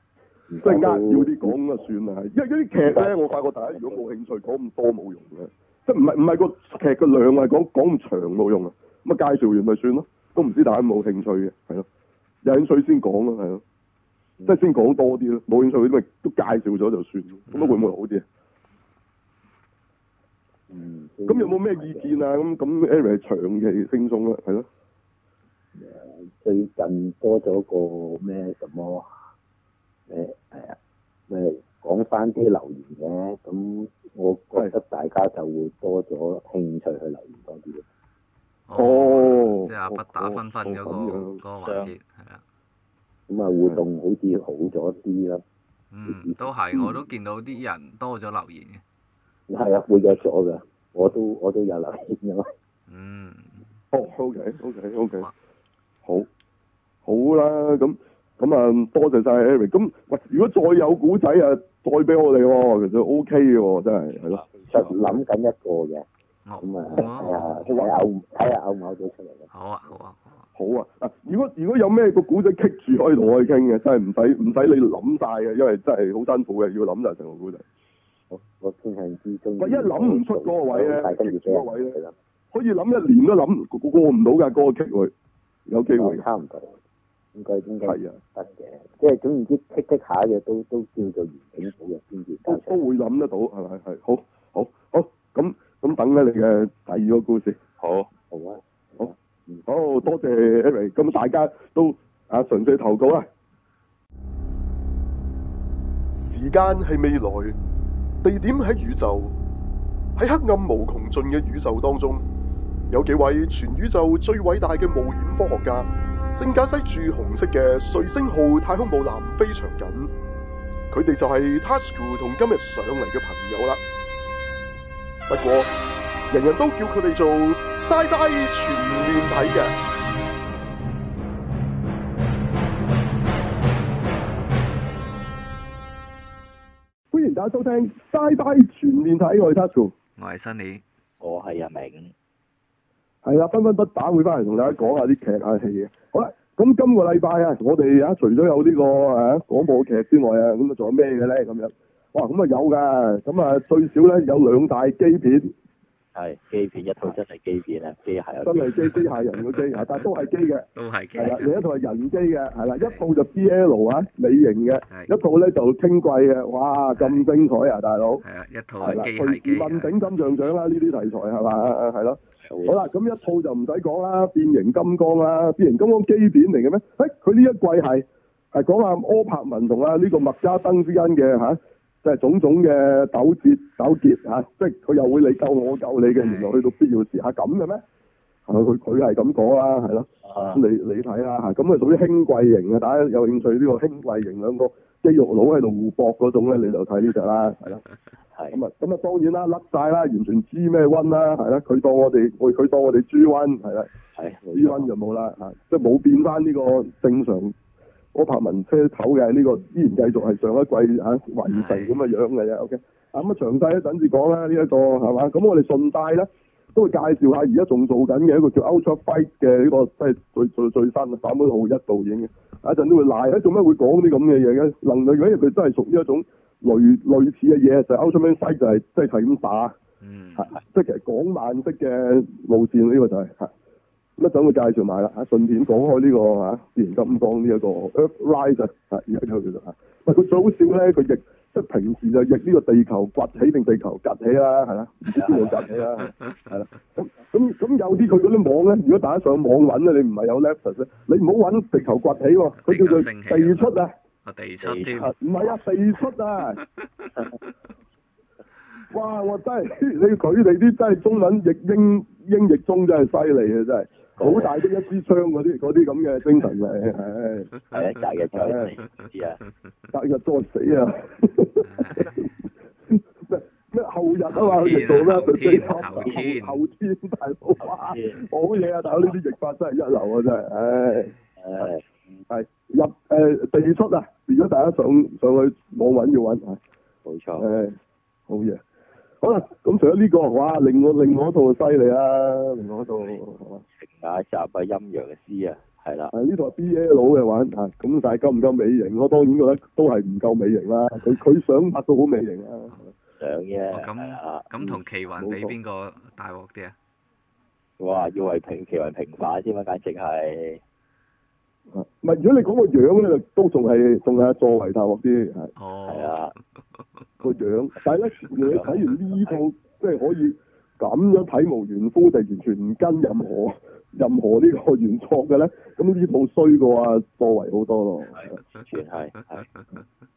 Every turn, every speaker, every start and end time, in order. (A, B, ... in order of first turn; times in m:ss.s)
0:00.5-0:01.5 A
0:00.6-0:11.9 B
0:02.8-0:04.0 A
0:12.4-0:13.6 B
0:14.4-0:18.2 B
0:17.5-0:17.9 C
0:20.7-0:22.2 A
0:21.3-0:24.7 B
0:25.8-0:29.1 A
0:30.1-0:30.8 A
0:31.3-0:37.8 A
0:38.7-0:42.4 C
0:38.8-0:41.4 B
0:41.6-0:41.9 D
0:43.3-0:45.4 A
0:45.9-0:48.8 C
0:46.1-0:46.4 A
0:49.5-0:52.5 A
0:52.9-0:53.7 C
0:53.9-0:55.3 B
0:57.0-1:05.2 B
1:04.1-1:04.9 D
1:04.7-1:06.1 A
1:06.4-1:07.7 C
1:06.6-1:09.5 A
1:07.0-1:08.0 B
1:09.5-1:10.4 C
1:10.6-1:17.6 B
1:18.3-1:22.1 A
1:19.6-1:22.0 B
1:22.5-1:25.1 B
1:25.7-1:26.2 B
1:25.9-1:26.8 A
1:27.4-1:32.8 A
1:27.8-1:28.2 B
1:32.5-1:37.6 B
1:37.8-1:38.1 D
1:38.3-1:39.6 A
1:39.7-1:43.3 B
1:46.2-1:47.6 E
1:48.2-1:49.3 E
1:50.2-1:52.2 E
1:52.9-2:00.1 E
2:00.9-2:03.8 E
2:05.3-2:05.7 E
2:06.3-2:09.8 E
2:17.1-2:19.9 B
2:20.2-2:20.8 C
2:21.2-2:22.1 D
2:23.2-2:35.5 B
2:36.2-2:38.8 D
2:38.4-2:48.2 B
2:38.8-2:40.1 C
2:40.8-2:41.6 C
2:47.0-2:47.3 C
2:48.2-2:50.0 C
2:48.8-3:07.8 B
2:52.5-2:52.8 D
3:08.5-3:17.8 B
3:10.2-3:10.6 D
3:18.5-3:23.9 B
3:24.2-3:24.9 D
3:24.5-3:27.6 B
3:28.1-3:49.8 B
3:31.5-3:32.0 C
3:50.0-3:50.6 C
3:50.4-3:53.5 B
3:54.2-4:13.9 B
4:05.1-4:06.1 D
4:12.6-4:15.2 C
4:14.6-4:15.1 D
4:15.2-4:16.6 B
4:16.6-4:17.0 C
4:18.9-4:27.5 B
4:24.2-4:24.6 D
4:27.7-4:29.4 D
4:28.3-4:28.7 B
4:29.9-4:32.3 B
4:31.6-4:32.2 C
4:32.9-4:41.1 B
4:34.3-4:36.6 C
4:37.6-4:38.2 D
4:41.4-4:41.8 D
4:42.3-4:46.6 B
4:47.0-4:47.5 D
4:47.4-4:47.8 B
4:48.3-4:48.6 B
4:49.2-4:53.6 B
4:53.8-4:56.1 D
4:56.1-5:02.9 B
5:03.2-5:04.5 D
5:03.7-5:06.8 C
5:04.6-5:05.6 B
5:07.8-5:10.6 D
5:11.7-5:15.5 B
5:15.6-5:16.8 C
5:15.9-5:16.3 D
5:17.2-5:28.4 B
5:18.4-5:18.8 D
5:28.2-5:29.5 D
5:29.6-5:29.8 C